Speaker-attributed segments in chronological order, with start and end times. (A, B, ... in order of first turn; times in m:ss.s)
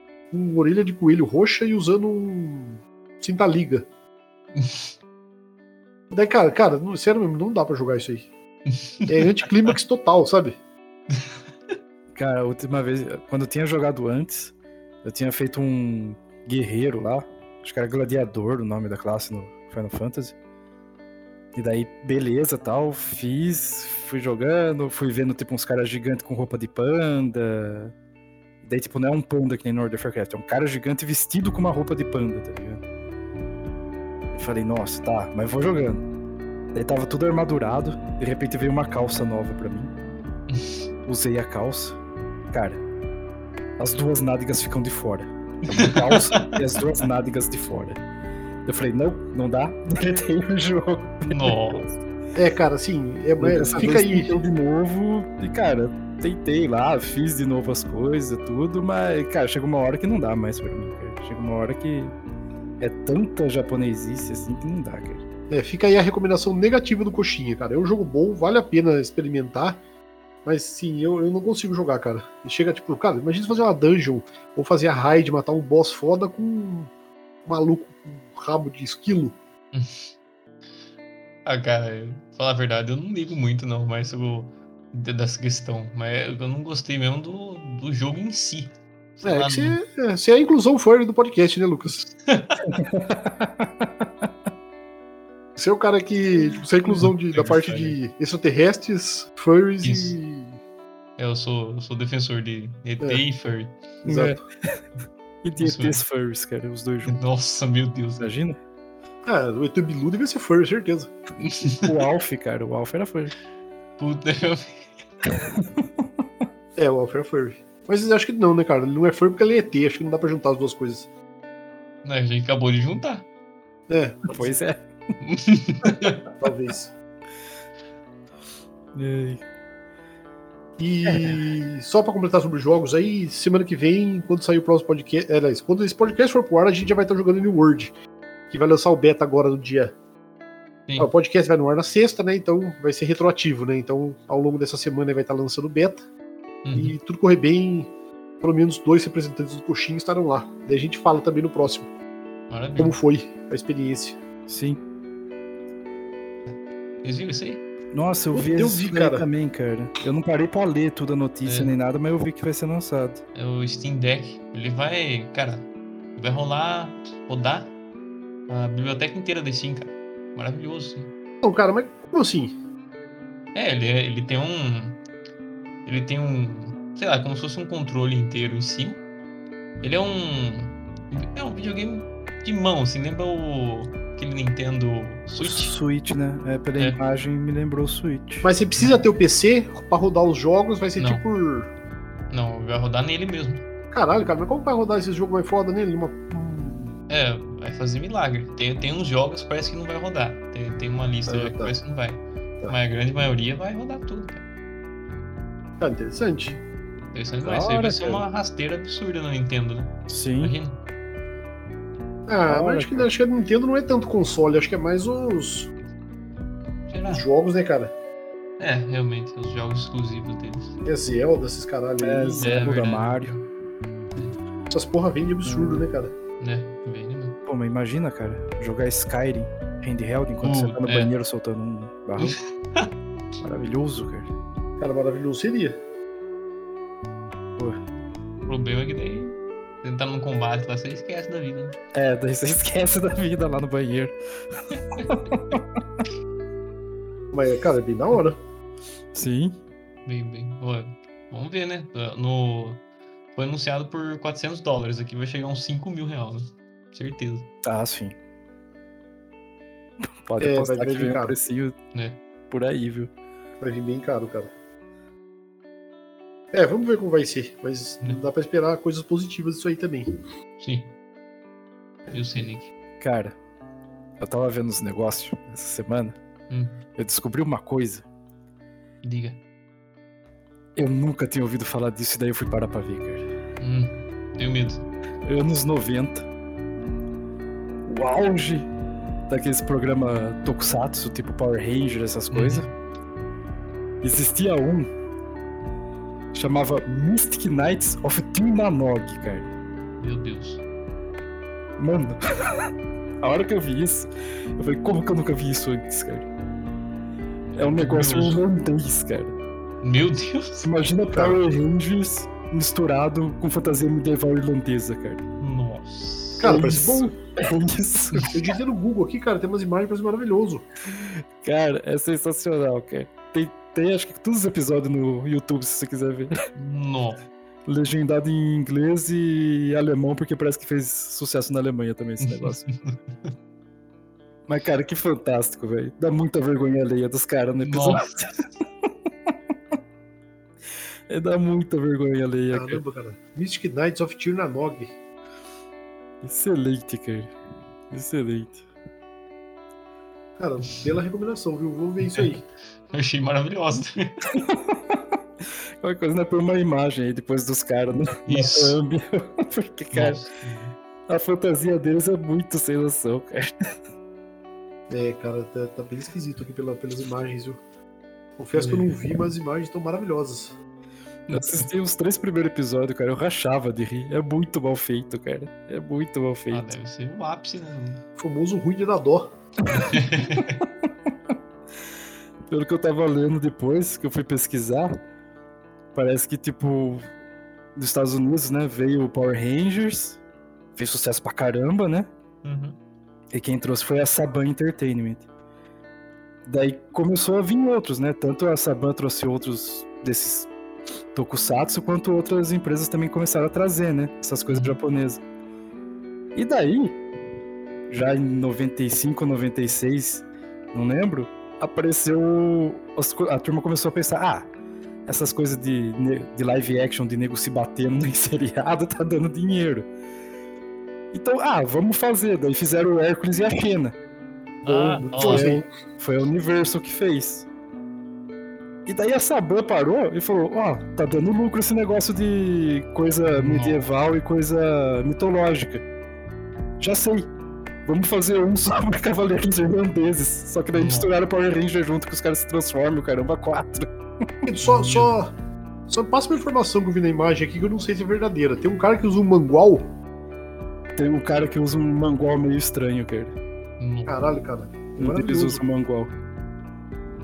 0:00.3-0:03.8 A
0:04.6-0:04.8 B
0:06.1-0:08.3 A
0:09.1-0:10.6 A
0:12.1-0:20.3 C
0:21.5-0:27.9 C
0:28.6-0:32.8 C
0:34.3-0:36.0 C
0:36.7-0:39.9 C
0:41.0-0:42.0 C
0:42.5-0:42.8 C
0:43.8-0:48.0 C
0:45.8-0:46.4 B
0:48.6-0:51.8 C
0:51.2-0:51.9 B
0:52.3-0:54.4 A
0:53.4-1:02.1 C
1:02.8-1:05.2 C
1:05.5-1:09.8 A
1:10.4-1:16.9 A
1:17.5-1:19.4 A
1:21.4-1:29.8 B
1:29.2-1:32.0 A
1:32.3-1:32.6 B
1:32.7-1:34.3 C
1:35.6-1:40.6 A
1:36.9-1:38.0 B
1:39.8-1:40.2 B
1:41.2-1:43.8 B
1:44.0-1:44.4 A
1:44.0-1:44.7 C
1:45.4-1:47.2 C
1:45.6-1:46.0 B
1:47.0-1:48.3 B
1:48.2-1:48.6 C
1:49.2-1:51.1 A
1:51.4-1:51.9 B
1:51.8-1:53.3 C
1:54.0-1:54.9 B
1:55.4-1:55.8 C
1:56.8-2:01.1 A
2:02.0-2:03.3 B
2:03.9-2:04.5 A
2:04.3-2:04.8 C
2:05.2-2:06.2 B
2:06.4-2:06.9 A
2:08.9-2:09.4 C
2:10.8-2:17.9 A
2:11.0-2:11.3 C
2:18.5-2:19.9 A
2:21.0-2:26.0 A
2:26.6-2:27.0 B
2:26.7-2:27.9 A
2:28.4-2:31.9 A
2:32.5-2:33.0 B
2:32.8-2:34.2 A
2:34.5-2:34.8 C
2:36.5-2:37.6 B
2:37.9-2:43.2 C
2:38.3-2:39.3 A
2:41.4-2:41.7 B
2:43.3-2:47.7 B
2:48.5-2:51.1 B
2:51.4-2:52.5 A
2:53.5-2:55.0 B
2:55.8-2:59.0 B
2:59.8-3:05.7 B
3:05.4-3:08.5 C
3:08.4-3:11.7 A
3:11.0-3:11.2 B
3:12.3-3:13.6 B
3:13.9-3:16.9 A
3:17.1-3:24.4 B
3:21.3-3:21.7 A
3:25.8-3:26.6 A
3:27.1-3:30.8 B
3:27.4-3:28.2 C
3:30.1-3:30.5 C
3:32.3-3:35.7 A
3:32.5-3:33.1 C
3:36.9-3:37.2 B
3:37.1-3:37.9 A
3:38.6-3:40.8 B
3:40.8-3:42.6 A
3:42.0-3:43.3 C
3:42.4-3:43.5 B
3:44.7-3:46.1 A
3:45.4-3:45.8 C
3:46.4-3:47.4 B
3:47.4-3:52.4 C
3:50.4-3:51.1 B
3:52.2-3:52.8 B
3:53.4-3:54.3 C
3:54.8-3:55.8 A
3:58.5-4:01.8 B
4:01.9-4:04.1 C
4:05.0-4:05.6 C
4:07.3-4:08.4 A
4:09.1-4:09.6 C
4:10.0-4:12.8 B
4:13.3-4:17.5 B
4:17.6-4:18.2 C
4:20.2-4:21.8 C
4:20.4-4:21.4 A
4:22.5-4:23.1 C
4:23.6-4:24.5 A
4:26.5-4:30.1 A
4:30.6-4:30.9 B
4:32.1-4:32.7 B
4:33.0-4:33.3 C
4:34.2-4:36.2 C
4:36.5-4:36.8 B
4:37.0-4:38.0 C
4:39.0-4:39.4 B
4:40.8-4:43.2 C
4:43.6-4:44.9 B
4:45.2-4:46.2 C
4:47.8-4:48.7 C
4:49.3-4:52.7 C
4:52.3-4:52.7 B
4:54.0-4:54.9 C
4:56.3-4:59.5 C
5:00.0-5:00.6 B
5:01.8-5:02.7 C
5:03.2-5:06.3 C
5:07.5-5:08.4 B
5:07.6-5:09.3 C
5:09.8-5:10.8 B
5:10.6-5:15.2 C
5:11.1-5:11.4 A
5:15.4-5:16.6 B
5:16.4-5:17.1 A
5:16.4-5:18.4 C
5:18.2-5:20.6 A
5:20.9-5:26.3 C
5:26.5-5:27.2 B
5:27.7-5:32.6 C
5:32.2-5:32.9 B
5:34.5-5:38.3 C
5:37.6-5:38.1 B
5:41.1-5:42.8 C
5:42.5-5:44.9 A
5:46.2-5:47.3 C
5:47.9-5:48.6 C
5:50.4-5:52.4 A
5:52.9-5:54.0 B
5:54.3-5:55.0 C
5:55.8-6:00.2 C
5:58.3-5:58.8 B
5:59.9-6:00.7 B
6:01.1-6:03.5 C
6:04.9-6:07.6 A
6:08.4-6:10.5 A
6:08.5-6:09.0 B
6:11.3-6:11.6 B
6:11.3-6:16.7 C
6:16.5-6:18.0 B
6:18.2-6:19.3 A
6:19.7-6:20.6 B
6:22.5-6:24.9 C
6:25.9-6:27.0 C
6:27.8-6:30.2 C
6:30.8-6:32.1 C
6:32.4-6:32.8 B
6:33.3-6:35.2 C
6:36.4-6:40.5 C
6:41.1-6:45.2 C
6:44.5-6:44.8 B
6:46.3-6:47.0 C
6:47.9-6:54.5 C
6:55.1-6:59.9 C
7:01.1-7:03.9 C
7:04.6-7:05.6 A
7:04.6-7:05.5 B
7:05.0-7:07.5 C
7:08.8-7:15.8 C
7:13.2-7:13.9 B
7:16.8-7:17.3 C
7:17.8-7:23.9 C
7:20.7-7:21.1 B
7:24.4-7:25.3 A
7:24.6-7:25.1 B
7:25.9-7:29.8 A
7:31.0-7:33.3 C
7:33.8-7:34.3 B
7:34.1-7:35.6 A
7:35.0-7:36.1 C